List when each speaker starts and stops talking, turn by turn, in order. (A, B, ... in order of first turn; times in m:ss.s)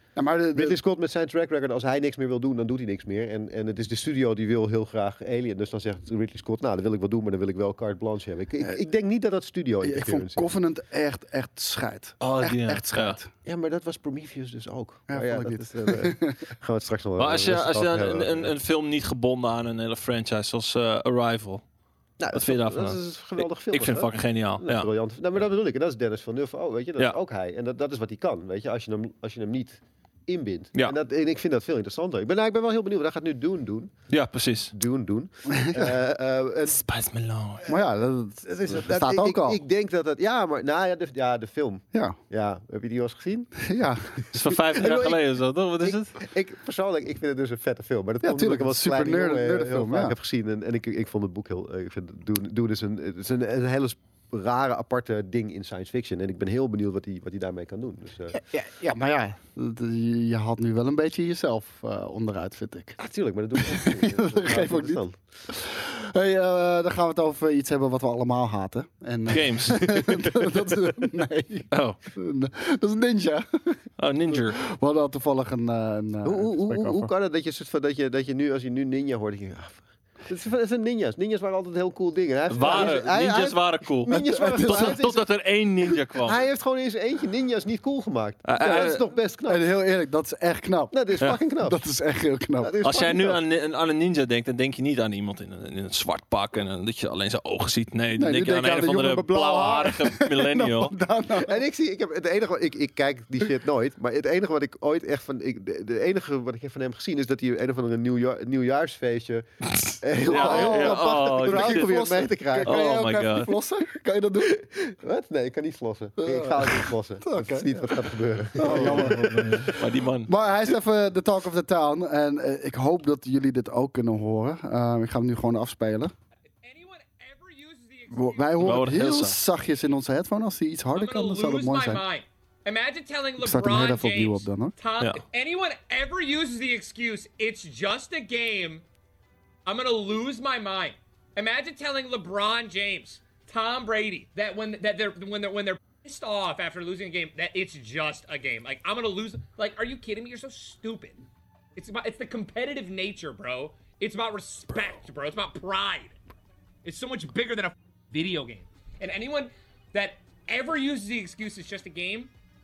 0:00.2-0:00.8 A
0:00.5-0:10.5 B
0:09.8-0:13.3 A
0:12.2-0:13.2 C
0:13.4-0:18.5 B
0:15.1-0:16.4 A
0:17.2-0:21.6 C
0:22.2-0:33.9 B
0:22.3-0:24.9 C
0:34.1-0:34.7 C
0:34.7-0:36.8 B
0:35.5-0:35.9 A
0:36.6-0:37.6 C
0:37.6-0:39.6 A
0:38.4-0:43.6 B
0:43.6-0:44.2 A
0:44.3-0:46.1 C
0:44.7-0:45.2 B
0:45.8-0:58.4 B
0:48.2-0:50.2 A
0:58.3-1:03.0 A
1:03.0-1:05.2 B
1:03.6-1:13.8 A
1:09.3-1:10.1 C
1:11.7-1:12.0 C
1:14.0-1:14.6 C
1:14.3-1:17.1 A
1:16.2-1:25.2 B
1:22.5-1:26.4 C
1:24.1-1:25.1 A
1:26.1-1:29.7 B
1:28.4-1:29.0 C
1:28.6-1:28.9 A
1:29.5-1:31.0 A
1:30.9-1:31.8 B
1:31.6-1:32.8 A
1:32.6-1:33.4 B
1:32.8-1:40.9 C
1:38.2-1:41.6 A
1:41.3-1:49.4 B
1:49.8-1:52.0 C
1:50.0-1:52.8 B
1:50.2-1:54.6 A
1:52.6-1:53.5 C
1:54.4-1:59.6 B
1:56.2-1:57.9 A
1:58.5-2:06.1 A
1:58.6-2:00.3 C
2:06.6-2:08.7 D
2:08.1-2:12.0 A
2:08.6-2:09.4 C
2:10.9-2:18.8 D
2:13.4-2:14.7 A
2:19.6-2:31.2 D
2:31.8-2:36.2 D
2:36.8-2:42.3 D